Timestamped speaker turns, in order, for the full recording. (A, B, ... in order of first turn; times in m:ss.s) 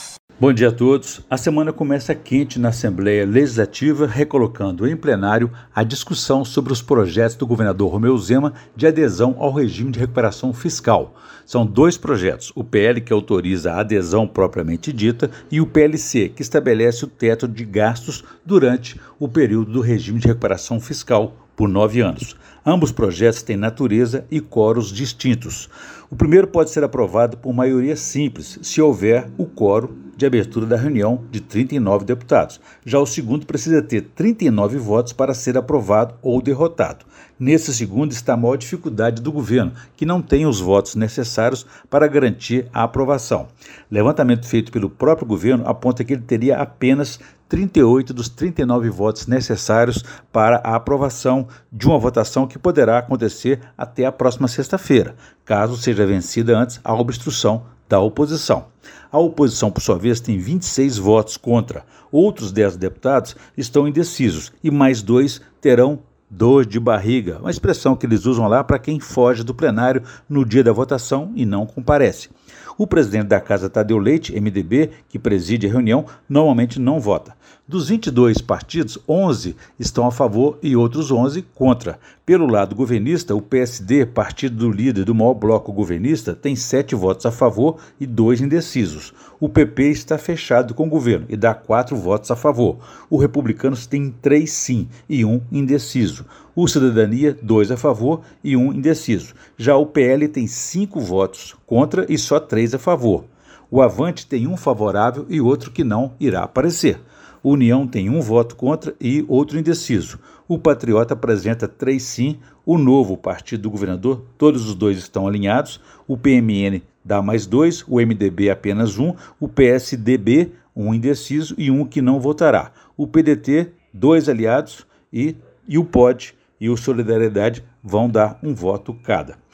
0:00.4-2:09.4 A